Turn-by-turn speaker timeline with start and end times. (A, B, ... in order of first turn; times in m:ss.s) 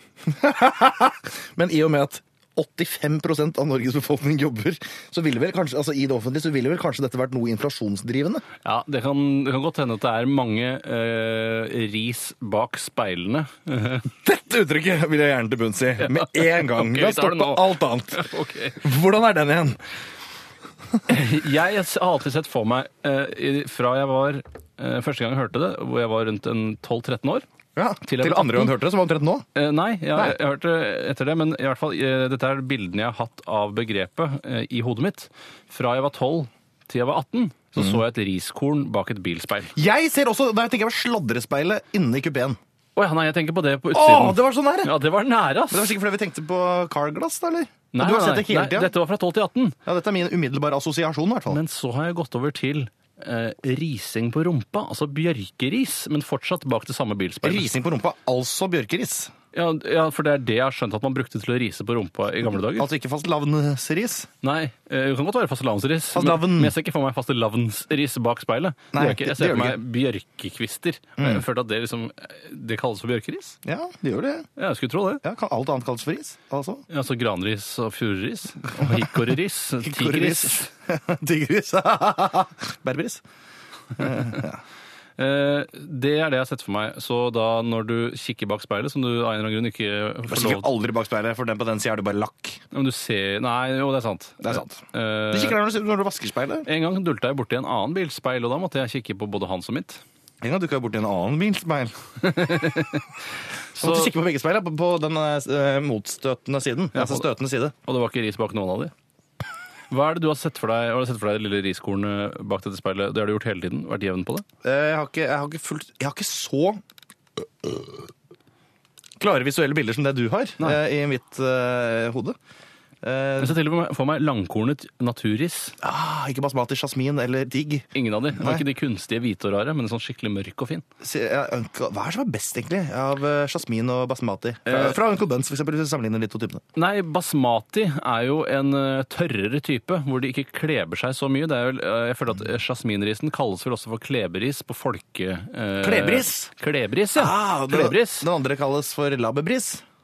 0:00.2-0:08.4 A
0:08.6-0:14.1 B
0:14.2-0:19.8 A
0:16.0-0:18.8 B
0:21.1-0:27.4 B
0:27.8-0:29.4 A
0:28.0-0:28.7 B
0:29.5-0:39.7 B
0:39.7-0:42.6 A
0:43.0-0:45.9 B
0:43.9-0:44.9 A
0:45.7-0:48.9 A
0:47.9-0:49.8 B
0:49.8-0:51.6 A
0:51.5-0:57.7 B
0:57.4-0:59.3 A
0:59.5-1:02.9 B
1:02.6-1:04.3 A
1:04.4-1:13.6 B
1:06.1-1:06.7 A
1:08.9-1:09.8 A
1:11.2-1:11.4 A
1:13.6-1:14.5 A
1:14.6-1:15.2 B
1:15.2-1:16.8 A
1:16.9-1:20.7 B
1:18.8-1:19.2 A
1:19.8-1:23.2 A
1:24.0-1:24.6 A
1:24.0-1:24.4 B
1:25.2-1:30.7 B
1:30.3-1:32.6 A
1:32.7-1:35.6 B
1:34.4-1:36.7 A
1:36.6-1:40.0 B
1:40.4-1:42.1 A
1:42.2-1:43.2 B
1:43.7-1:44.1 B
1:43.8-1:47.7 A
1:46.9-1:47.3 B
1:47.8-1:48.9 B
1:49.9-1:54.4 B
1:54.6-1:56.8 A
1:57.6-1:57.9 A
1:59.2-2:02.4 A
2:03.0-2:03.6 A
2:03.4-2:05.7 B
2:05.8-2:08.6 A
2:07.9-2:10.8 B
2:11.0-2:16.6 A
2:14.7-2:15.0 B
2:16.8-2:28.3 B
2:25.8-2:26.5 A
2:27.1-2:29.8 A